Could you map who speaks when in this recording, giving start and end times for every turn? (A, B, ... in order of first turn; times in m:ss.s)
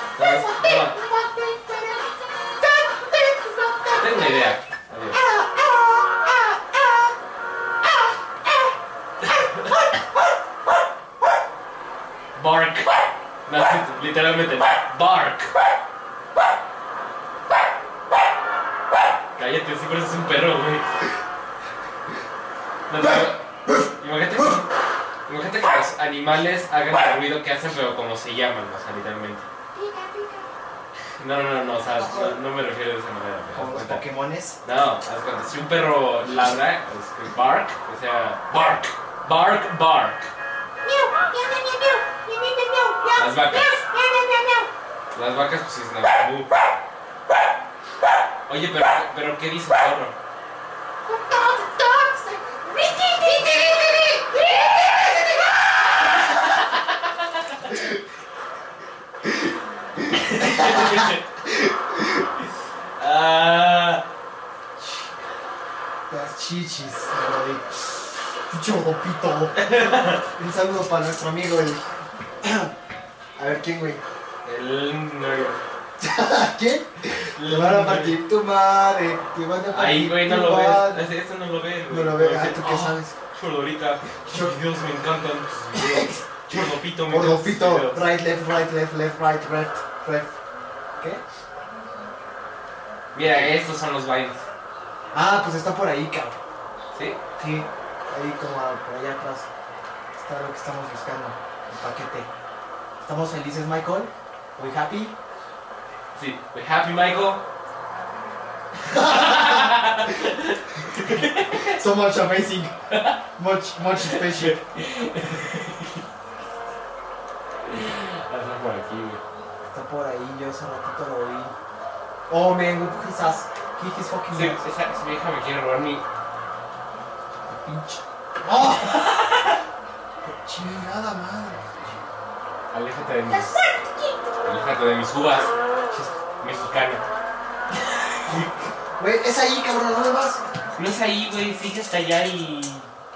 0:00.2-0:01.0 A
0:00.2-0:04.5 B
0:04.0-0:05.2 A
0:05.1-0:07.1 B
0:08.4-0:08.7 B
0:09.3-0:10.2 B
0:09.3-0:09.7 A
0:12.4-0:15.5 A
0:19.4-0:21.0 A
0:22.9-0:24.7 A
0:23.0-0:23.8 C
0:25.2-0:29.5 A
0:29.7-0:30.5 B
0:31.2-0:34.1 A
0:32.0-0:32.4 C
0:33.5-0:34.6 C
0:34.6-0:40.3 A
0:40.8-0:44.7 B
0:43.1-0:43.8 A
0:45.1-0:46.5 A
0:48.5-0:50.1 A
0:51.0-0:55.5 B
0:57.7-0:58.0 C
1:00.1-1:01.2 A
1:00.4-1:02.2 C
1:03.0-1:04.0 A
1:06.1-1:11.8 C
1:09.6-1:10.2 A
1:12.4-1:12.7 C
1:13.4-1:14.0 C
1:14.4-1:15.6 A
1:16.0-1:21.1 C
1:17.3-1:18.2 A
1:19.7-1:28.0 A
1:21.9-1:23.1 C
1:24.2-1:24.6 C
1:25.7-1:30.3 C
1:33.1-1:34.4 A
1:33.2-1:33.5 C
1:35.1-1:36.4 C
1:36.9-1:37.2 A
1:37.4-1:39.5 C
1:40.2-1:42.3 C
1:43.0-1:45.1 C
1:46.1-1:47.4 A
1:48.8-1:50.1 C
1:49.0-1:51.7 A
1:50.8-1:52.7 C
1:52.9-1:53.2 A
1:53.4-1:54.6 C
1:54.0-1:56.0 A
1:57.6-1:59.2 A
1:59.7-2:01.5 C
2:02.3-2:04.6 C
2:04.3-2:06.0 A
2:07.5-2:09.0 C
2:08.8-2:09.5 A
2:10.2-2:12.0 C
2:12.7-2:13.5 A
2:13.3-2:14.2 B
2:14.4-2:15.5 A
2:16.4-2:17.0 A
2:18.2-2:20.4 C
2:20.8-2:22.9 A